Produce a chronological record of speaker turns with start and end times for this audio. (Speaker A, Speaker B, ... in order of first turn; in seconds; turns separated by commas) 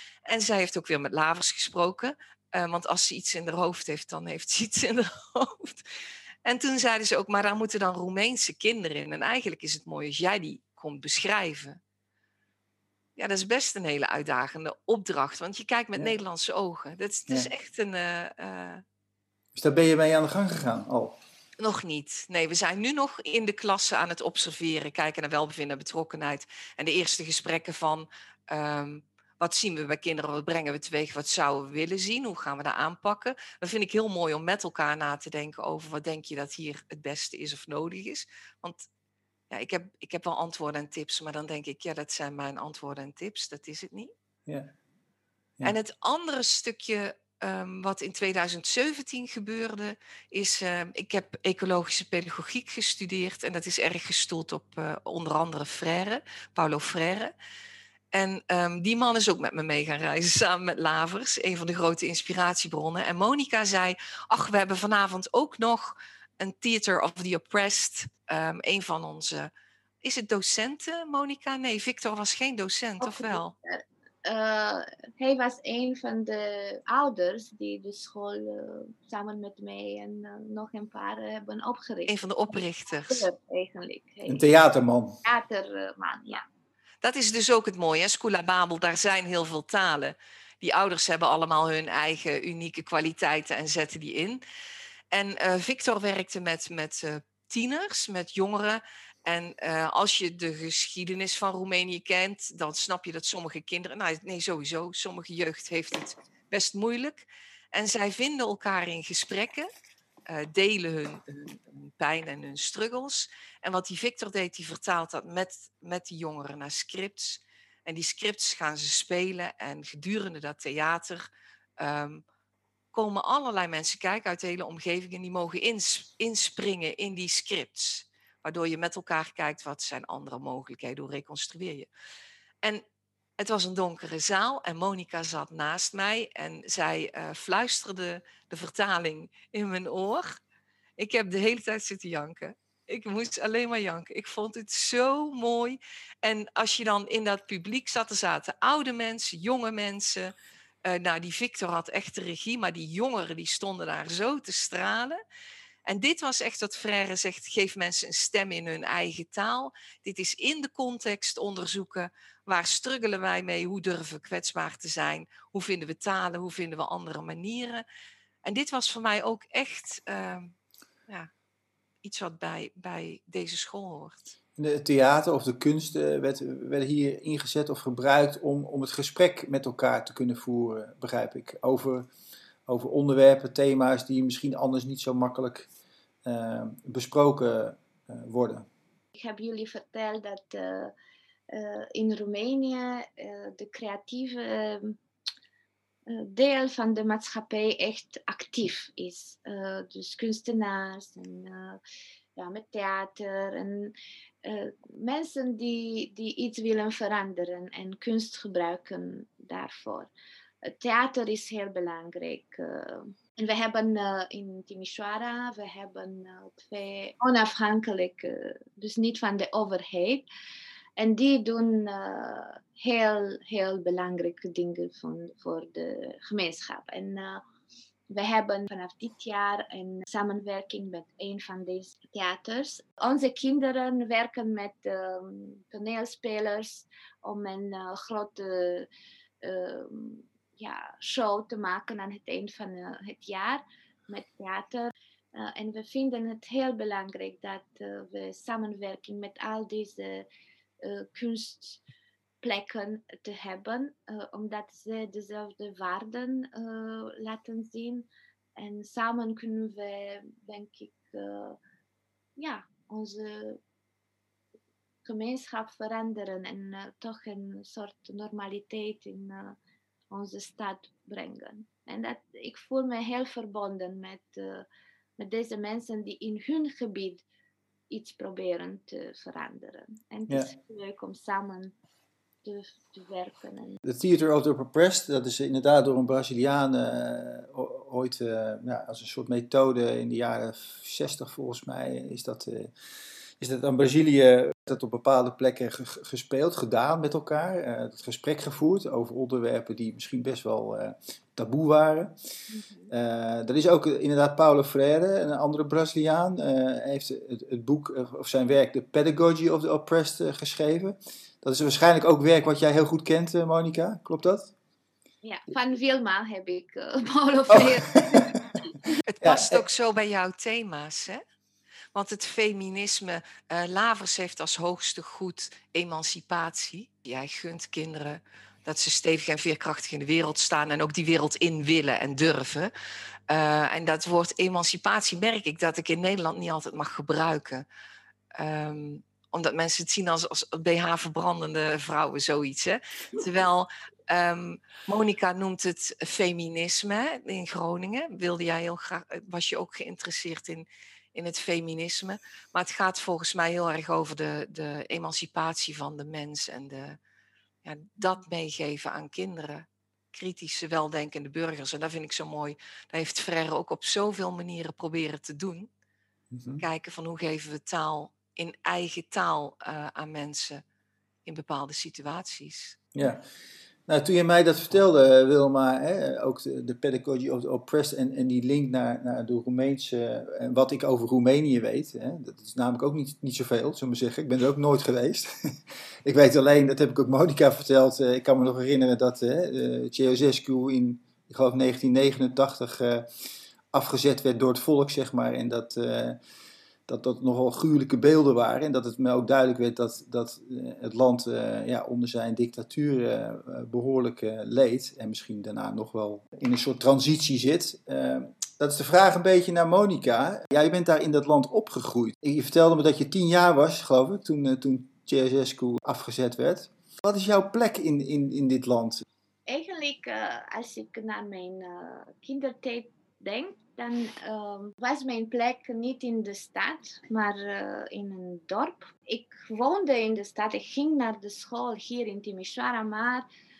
Speaker A: 0.2-5.8, Speaker A: 6.4-11.8, Speaker A: 13.2-18.8, Speaker B: 19.5-21.2, Speaker A: 21.6-38.9, Speaker A: 39.5-44.1, Speaker B: 44.5-44.7, Speaker A: 45.6-57.3, Speaker A: 58.1-69.5, Speaker A: 70.0-73.5, Speaker C: 73.0-82.1, Speaker A: 82.1-83.2, Speaker C: 83.0-84.5, Speaker B: 84.2-85.2, Speaker C: 85.2-86.4, Speaker A: 87.0-94.4, Speaker A: 95.1-109.7, Speaker A: 110.3-121.3, Speaker A: 121.8-122.2, Speaker A: 122.9-131.9, Speaker A: 133.4-140.4, Speaker A: 141.0-150.3, Speaker A: 150.8-155.2, Speaker A: 155.8-167.8, Speaker A: 168.4-170.5, Speaker A: 172.0-174.3, Speaker B: 174.6-182.1, Speaker B: 182.7-185.7, Speaker B: 186.2-188.7, Speaker C: 189.1-190.9, Speaker C: 191.5-195.0, Speaker C: 196.1-201.8, Speaker C: 202.3-210.1, Speaker C: 210.6-220.2, Speaker C: 221.0-227.4, Speaker C: 228.1-238.9, Speaker C: 239.4-250.2, Speaker C: 250.8-251.8, Speaker C: 252.4-261.6, Speaker C: 262.4-263.6, Speaker C: 265.0-269.6, Speaker C: 270.1-274.6, Speaker C: 275.2-277.2, Speaker C: 277.9-281.7, Speaker C: 282.4-283.8, Speaker B: 283.8-292.7, Speaker B: 293.4-302.1, Speaker C: 302.5-302.9, Speaker B: 302.9-314.5, Speaker C: 315.2-318.4, Speaker B: 317.5-318.4, Speaker A: 319.1-321.2, Speaker B: 319.2-319.6, Speaker A: 321.9-332.7, Speaker A: 333.3-337.6, Speaker A: 338.3-357.0, Speaker A: 357.6-365.7, Speaker B: 366.3-366.6, Speaker A: 366.6-370.6, Speaker A: 371.2-372.8, Speaker B: 372.9-373.2, Speaker B: 373.9-393.1, Speaker B: 393.7-396.2, Speaker B: 396.9-419.0, Speaker C: 419.5-433.2